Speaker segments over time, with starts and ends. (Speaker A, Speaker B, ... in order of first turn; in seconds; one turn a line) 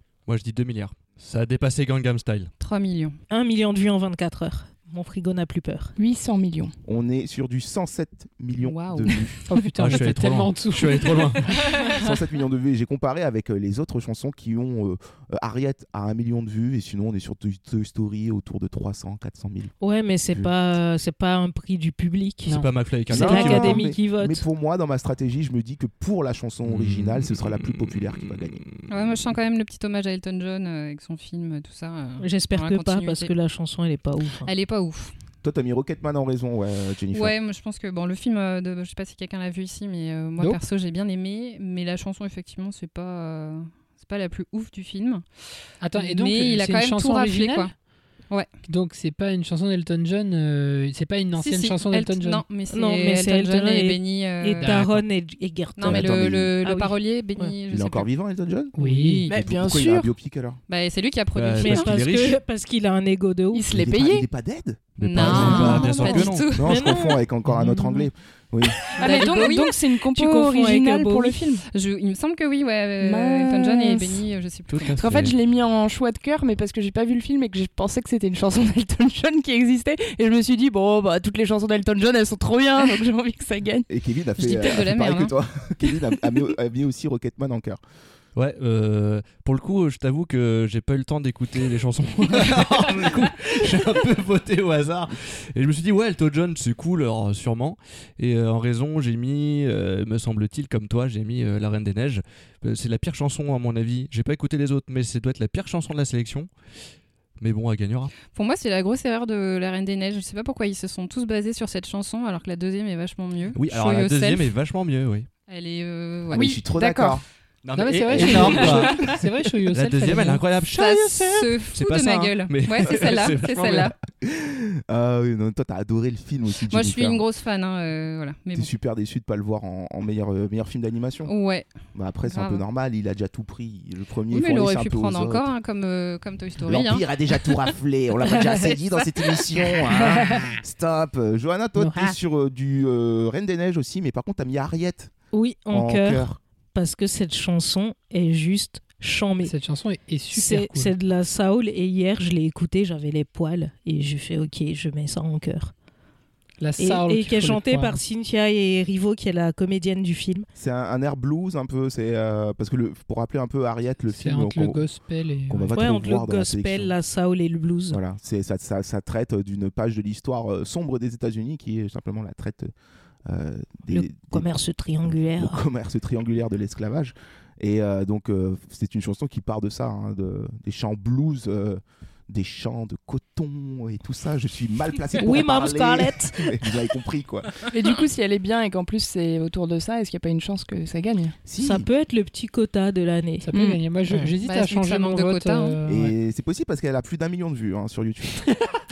Speaker A: 0.2-2.5
Speaker B: 2.6-3.2
Speaker C: 3.3-5.9
Speaker D: 6.0-6.7
Speaker E: 6.8-9.3
Speaker B: 8.6-9.3
Speaker F: 9.5-11.4
Speaker A: 9.8-11.5
Speaker E: 11.9-19.7
Speaker C: 19.8-22.6
Speaker A: 22.5-23.8
Speaker E: 23.1-28.6
Speaker C: 23.1-24.4
Speaker F: 23.3-23.8
Speaker A: 26.6-28.9
Speaker B: 28.9-33.3
Speaker C: 32.2-34.5
Speaker B: 34.4-35.1
Speaker E: 35.4-37.3
Speaker B: 37.1-45.2
Speaker F: 45.8-47.7
Speaker B: 45.9-47.7
Speaker F: 48.7-52.4
Speaker B: 51.4-54.8
Speaker C: 52.7-57.5
Speaker F: 54.6-55.0
Speaker B: 55.8-58.1
Speaker E: 55.8-56.5
Speaker E: 57.7-58.7
Speaker F: 58.7-59.2
Speaker B: 58.7-59.3
Speaker E: 59.3-60.6
Speaker D: 59.3-60.1
Speaker B: 60.7-62.0
Speaker A: 61.3-62.4
Speaker C: 61.6-63.7
Speaker D: 63.5-64.3
Speaker E: 63.7-65.9
Speaker A: 65.0-66.5
Speaker B: 65.0-66.7
Speaker D: 65.2-66.4
Speaker C: 66.0-67.2
Speaker E: 66.5-68.8
Speaker F: 67.5-68.1
Speaker B: 69.0-69.8
Speaker D: 69.0-71.7
Speaker C: 69.1-69.5
Speaker C: 70.1-71.5
Speaker B: 71.7-75.0
Speaker D: 73.0-74.2
Speaker A: 74.7-75.3
Speaker D: 75.0-83.8
Speaker E: 83.9-87.8
Speaker B: 84.4-85.3
Speaker A: 88.3-106.5
Speaker A: 107.4-108.1
Speaker B: 108.3-114.5
Speaker A: 113.5-115.3
Speaker B: 115.5-116.5
Speaker E: 116.3-117.2
Speaker D: 116.3-117.2
Speaker A: 117.6-119.2
Speaker F: 117.7-120.4
Speaker E: 118.1-118.8
Speaker A: 119.7-123.9
Speaker B: 120.7-123.9
Speaker E: 124.2-127.2
Speaker B: 126.7-128.7
Speaker E: 128.5-131.3
Speaker B: 131.2-131.7
Speaker E: 131.9-135.5
Speaker B: 132.2-132.6
Speaker B: 134.3-137.1
Speaker E: 136.6-145.1
Speaker F: 141.8-142.2
Speaker C: 145.3-149.5
Speaker E: 145.7-146.4
Speaker F: 149.4-150.9
Speaker C: 150.3-155.7
Speaker F: 156.6-158.0
Speaker C: 156.8-160.4
Speaker E: 160.6-164.8
Speaker F: 164.1-165.8
Speaker E: 165.5-166.9
Speaker C: 165.7-168.0
Speaker E: 167.9-172.7
Speaker E: 173.2-174.5
Speaker C: 173.9-175.6
Speaker E: 175.0-187.7
Speaker C: 185.2-186.5
Speaker D: 187.7-191.4
Speaker E: 191.4-191.9
Speaker C: 191.6-193.5
Speaker F: 193.4-196.1
Speaker D: 193.5-193.8
Speaker B: 194.4-195.8
Speaker E: 195.9-198.6